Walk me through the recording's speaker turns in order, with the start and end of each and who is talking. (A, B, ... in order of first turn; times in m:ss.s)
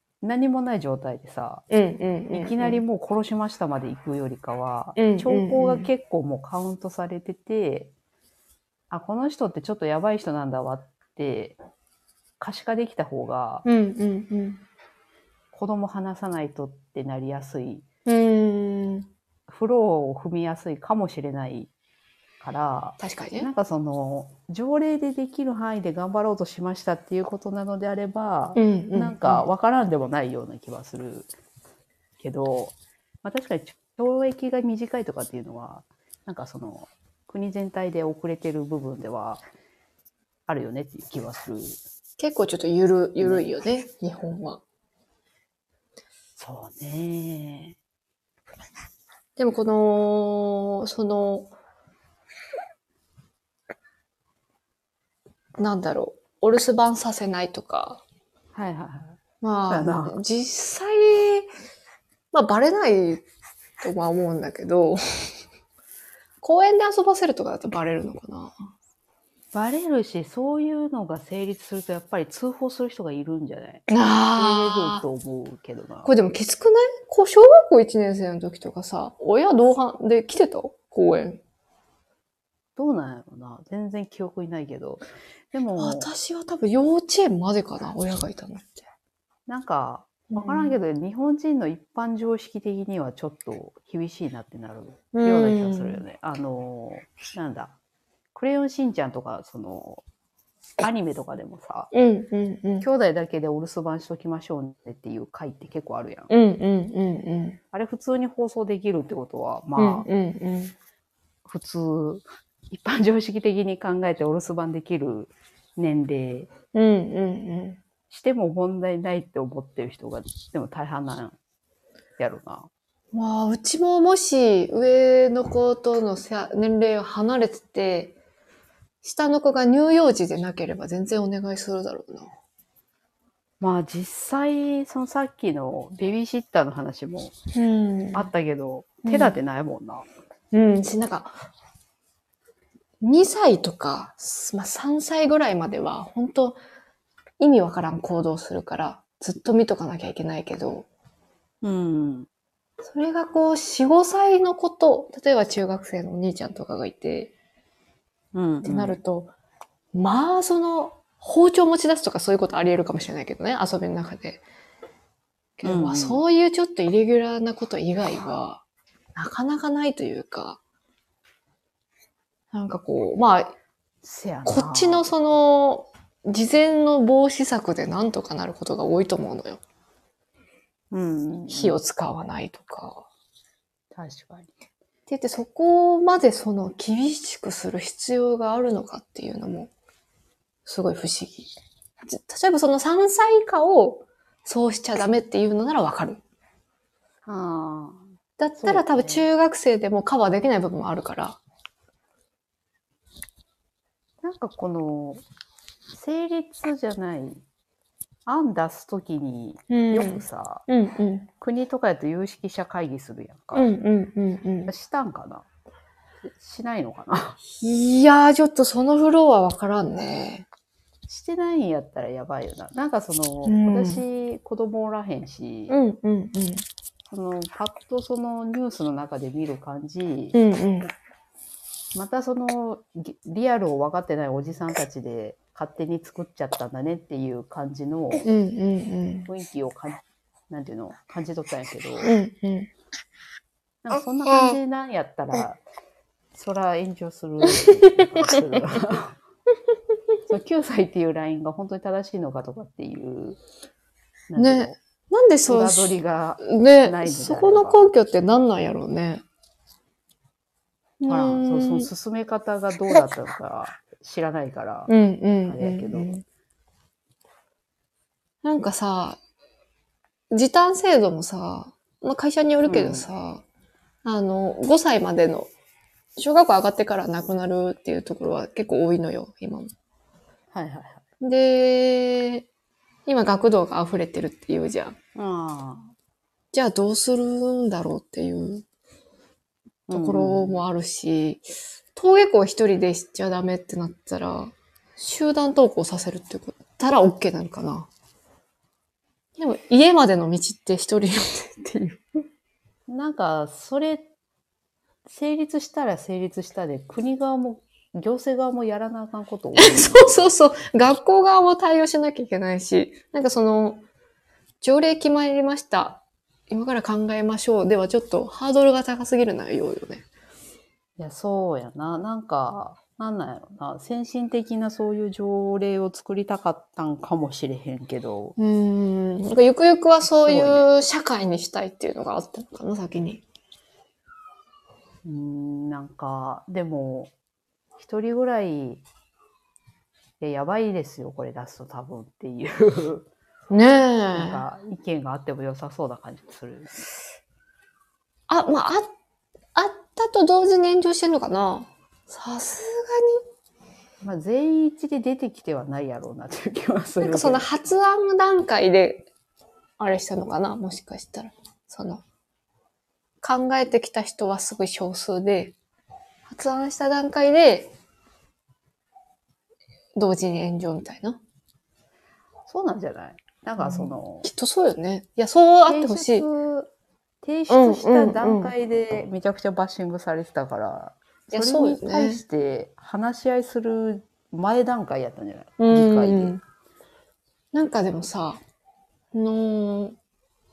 0:00.2-0:01.6 A
0:01.7-0:02.8 B
0:02.3-0:07.9 A
0:05.0-0:05.9 B
0:08.9-0:11.6 A
0:12.4-0:13.6 A
0:13.6-0:14.6 B
0:15.5-0:17.8 A
0:18.1-0:19.1 B
0:19.5-0:21.7 A
0:22.4-0:31.3 A
0:23.0-0:23.5 B
0:28.6-0:29.5 B
0:32.2-0:39.4 A
0:40.5-0:41.8 A
0:42.2-0:44.6 B
0:43.2-0:43.4 A
0:46.4-0:47.8 A
0:49.4-0:51.5 B
0:55.6-0:58.0 B
0:58.5-0:59.2 A
0:59.4-1:01.5 B
0:59.7-1:00.2 A
1:02.3-1:03.2 B
1:03.8-1:05.0 B
1:06.4-1:08.5 B
1:09.5-1:13.8 A
1:13.9-1:15.0 B
1:14.4-1:16.1 A
1:16.0-1:21.4 B
1:22.8-1:26.1 A
1:25.8-1:28.9 B
1:29.5-1:37.7 A
1:30.3-1:30.8 B
1:35.1-1:36.0 B
1:38.4-1:40.0 A
1:40.8-1:41.9 A
1:41.9-1:42.9 B
1:42.8-1:46.3 A
1:46.3-1:47.6 B
1:47.7-1:50.1 A
1:49.8-1:50.8 B
1:51.4-1:56.5 A
1:56.7-1:57.8 B
1:58.1-2:01.4 A
2:02.2-2:02.7 A
2:03.1-2:08.2 B
2:09.0-2:12.3 B
2:13.6-2:17.4 A
2:17.5-2:18.3 B
2:18.1-2:20.1 A
2:19.1-2:19.4 B
2:20.5-2:21.3 B
2:23.0-2:26.6 B
2:27.4-2:30.9 B
2:31.6-2:32.3 A
2:32.8-2:37.3 B
2:38.3-2:39.0 A
2:38.6-2:39.3 B
2:39.9-2:44.4 B
2:45.6-2:48.6 B
2:45.6-2:46.2 A
2:49.2-2:50.6 B
2:52.5-2:53.6 B
2:54.0-2:55.1 A
2:54.5-2:59.6 B
3:00.9-3:01.8 A
3:01.5-3:03.0 B
3:03.9-3:04.5 A
3:05.1-3:09.7 B
3:10.7-3:11.5 B
3:12.0-3:16.2 B
3:17.3-3:18.0 A
3:18.4-3:21.4 B
3:18.6-3:19.3 A
3:24.2-3:25.2 A
3:25.9-3:27.4 A
3:28.3-3:30.6 A
3:29.7-3:31.3 B
3:31.4-3:33.7 A
3:33.6-3:34.7 B
3:34.7-3:35.5 A
3:36.2-3:37.4 A
3:37.5-3:40.5 B
3:41.1-3:45.8 A
3:43.4-3:44.0 B
3:45.7-3:46.6 B
3:47.1-3:50.4 A
3:50.3-3:50.9 B
3:51.9-3:58.3 A
3:58.2-3:59.3 B
3:59.3-4:02.1 A
4:02.0-4:02.7 B
4:03.8-4:05.6 A
4:06.3-4:09.2 A
4:07.6-4:08.4 B
4:10.3-4:13.4 A
4:14.3-4:14.8 A
4:14.4-4:19.2 B
4:15.5-4:17.8 A
4:21.0-4:21.9 B
4:21.1-4:24.9 A
4:24.9-4:26.2 B
4:25.5-4:26.1 A
4:28.4-4:29.2 B
4:30.3-4:33.4 B
4:32.6-4:33.1 A
4:34.0-4:35.5 B
4:36.2-4:39.7 B
4:40.5-4:41.0 A
4:41.2-4:42.5 B
4:43.1-4:45.0 B
4:45.2-4:45.9 A
4:46.5-4:48.6 B
4:49.9-4:50.6 A
4:49.9-4:57.9 B
4:59.4-5:02.0 B
5:02.9-5:04.1 A
5:05.1-5:10.3 A
5:09.6-5:13.9 B
5:14.6-5:20.0 B
5:21.0-5:28.4 A
5:28.4-5:33.2 B
5:30.0-5:30.6 A
5:35.0-5:37.1 A
5:37.8-5:38.8 A
5:40.2-5:43.1 A
5:43.5-5:44.4 B
5:44.1-5:46.7 A
5:48.3-5:48.9 B
5:49.6-5:53.2 B
5:54.0-5:57.5 A
5:57.0-5:59.1 B
5:59.8-6:02.0 B
6:03.2-6:05.6 B
6:06.3-6:07.7 B
6:10.0-6:11.2 B
6:12.5-6:14.3 A
6:13.6-6:16.3 B
6:15.7-6:16.7 A
6:17.2-6:26.4 A
6:17.5-6:18.5 B
6:21.3-6:22.2 B
6:25.6-6:26.4 B
6:27.5-6:28.4 B
6:29.1-6:30.0 B